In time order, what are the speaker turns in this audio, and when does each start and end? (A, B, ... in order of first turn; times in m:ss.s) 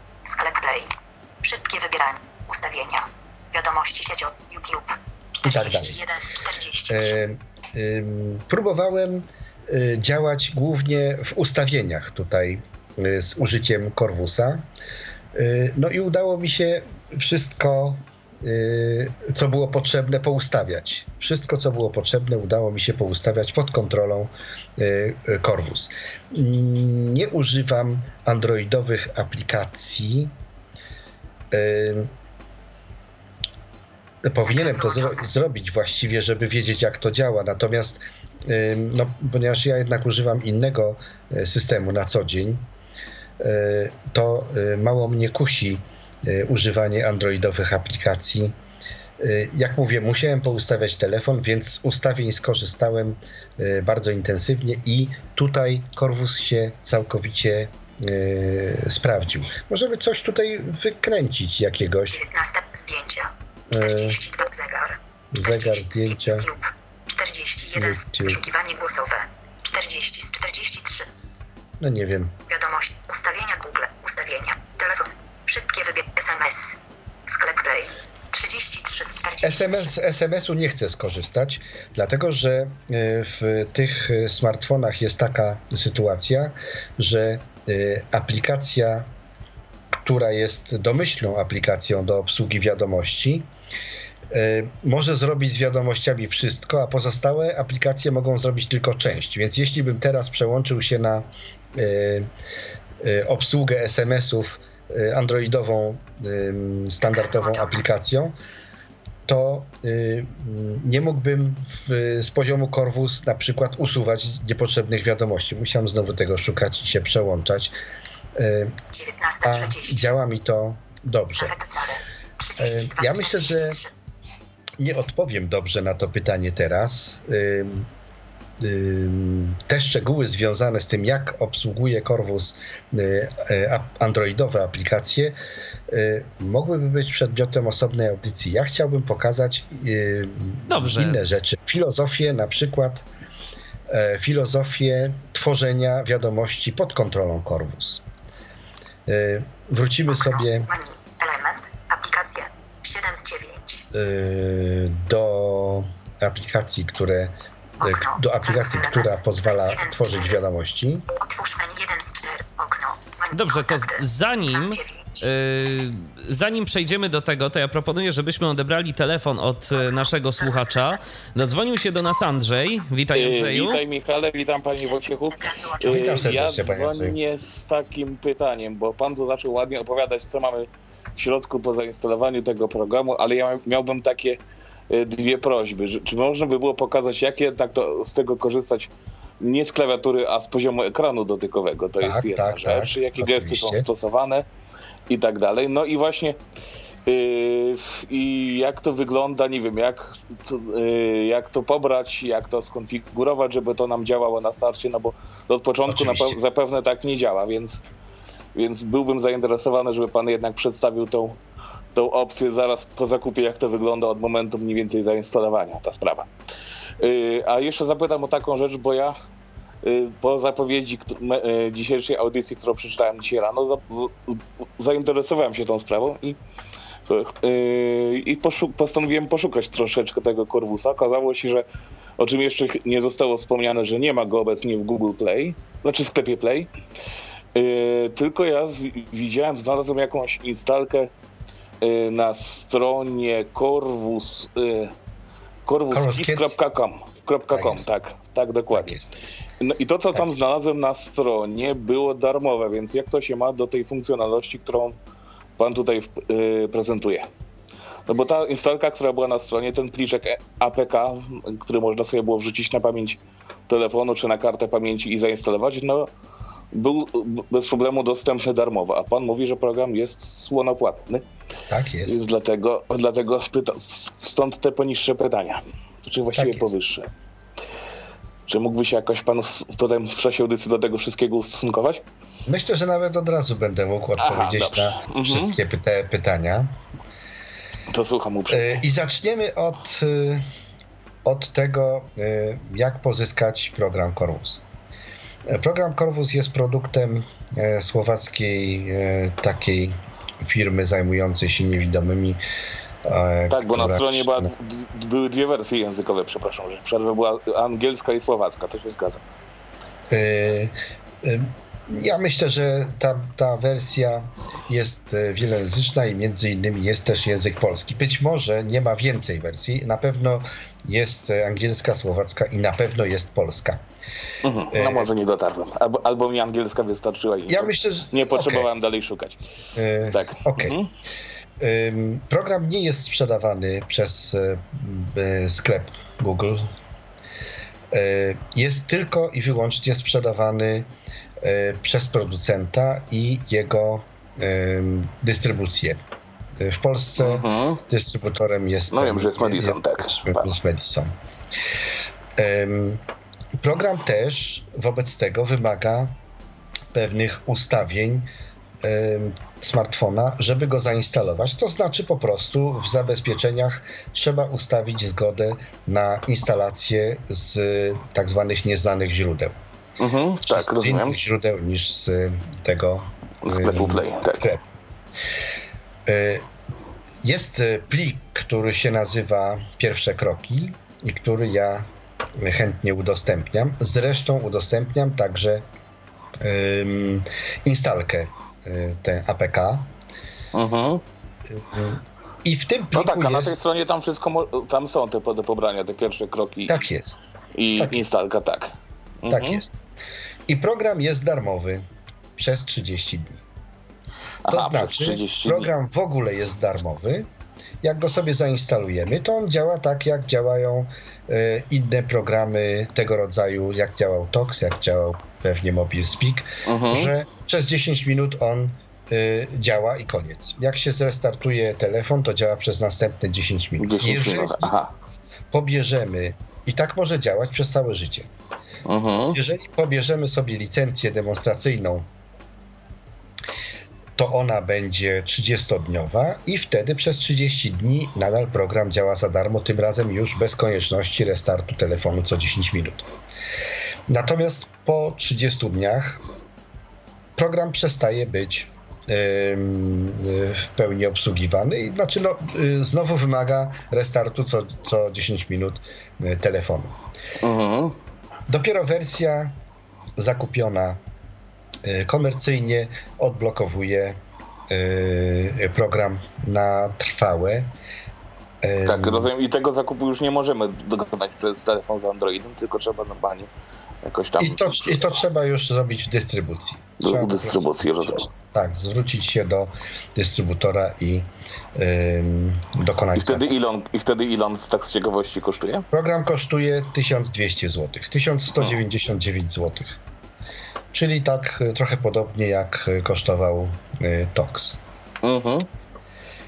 0:00.3-0:07.2 A
0:05.4-0:06.0 B
0:06.9-0:14.6 B
0:15.4-0:30.3 B
0:31.5-0:32.1 B
0:34.2-0:42.6 B
0:34.5-0:35.3 A
0:43.4-0:48.6 B
0:49.2-1:02.2 B
1:02.1-1:11.1 A
1:03.7-1:04.2 B
1:05.3-1:06.5 B
1:07.8-1:08.4 B
1:11.8-1:12.3 B
1:12.5-1:19.9 A
1:19.4-1:29.1 B
1:30.0-1:33.5 B
1:34.3-1:42.3 B
1:43.0-1:48.3 B
1:47.1-1:47.8 A
1:49.3-1:57.7 B
1:58.4-1:58.8 B
1:58.9-2:00.1 A
1:59.4-2:01.6 B
2:01.3-2:03.9 A
2:02.6-2:03.8 B
2:04.8-2:07.9 B
2:08.6-2:15.4 B
2:15.9-2:23.1 B
2:20.7-2:21.2 C
2:23.9-2:28.0 B
2:29.1-2:30.7 B
2:30.1-2:33.9 A
2:33.9-2:41.1 B
2:37.8-2:40.4 A
2:41.2-2:45.4 A
2:43.3-2:53.8 C
2:49.7-2:52.2 A
2:53.1-3:14.5 D
2:54.6-2:56.4 A
2:55.8-2:57.2 B
3:12.0-3:13.9 B
3:15.1-3:16.4 D
3:17.1-3:27.8 D
3:25.9-3:26.4 B
3:28.6-3:31.4 D
3:31.9-3:36.3 D
3:37.0-3:39.1 D
3:39.8-3:46.4 D
3:47.1-3:51.6 D
3:52.2-3:56.7 D
3:57.6-4:01.1 D
4:01.8-4:04.9 D
4:05.7-4:09.0 D
4:05.9-4:06.6 B
4:07.5-4:07.9 B
4:08.7-4:09.2 B
4:09.6-4:15.0 D
4:15.6-4:17.3 D
4:18.1-4:26.1 D
4:26.7-4:31.2 D
4:31.7-4:32.2 B
4:32.1-4:37.1 D
4:36.3-4:36.7 B
4:38.5-4:42.0 D
4:42.5-4:46.7 B
4:44.2-4:45.6 D
4:47.9-4:48.8 D
4:48.5-4:50.4 B
4:51.2-4:54.6 B
4:55.5-5:02.4 B
5:03.0-5:04.5 B
5:03.5-5:09.2 D
5:10.1-5:23.8 B
5:24.4-5:29.4 D
5:24.7-5:25.1 B
5:27.5-5:28.7 B
5:29.8-5:30.8 B
5:30.0-5:30.9 D
5:31.6-5:36.7 B
5:37.9-5:40.9 B
5:41.4-5:46.0 B
5:46.6-5:51.1 B
5:47.2-5:47.8 D
5:48.9-5:50.5 D
5:52.4-5:53.0 B
5:53.6-5:56.2 B
5:56.9-5:58.3 B
5:58.8-6:09.6 B
6:10.0-6:11.2 D
6:10.5-6:14.6 B
6:13.4-6:14.5 D
6:16.1-6:16.5 B
6:17.2-6:21.9 B
6:22.4-6:25.6 B
6:26.4-6:29.9 B
6:30.5-6:31.0 D
6:31.5-6:33.6 B
6:32.9-6:36.8 D
6:36.7-6:37.2 B
6:37.6-6:39.6 D
6:37.8-6:38.0 B
6:39.3-6:39.8 B
6:40.5-6:41.8 B
6:42.4-6:43.4 B
6:44.4-6:45.7 D
6:44.5-6:47.3 B
6:47.8-7:04.7 B
6:56.6-6:57.1 D
7:03.8-7:04.9 D
7:05.5-7:08.3 B
7:08.9-7:09.4 D
7:09.3-7:12.1 B
7:14.2-7:23.1 B
7:24.1-7:26.2 B
7:27.4-7:37.0 B
7:37.4-7:38.0 D
7:38.5-7:39.6 B
7:40.2-7:41.0 B
7:41.8-7:44.2 B
7:44.7-7:47.7 B
7:48.6-7:49.3 B
7:48.9-7:53.5 D
7:54.0-7:55.1 D
7:54.4-8:03.5 B
7:57.0-7:58.3 D
8:03.2-8:05.9 D
8:05.9-8:10.0 B
8:10.9-8:14.8 B
8:15.2-8:15.7 D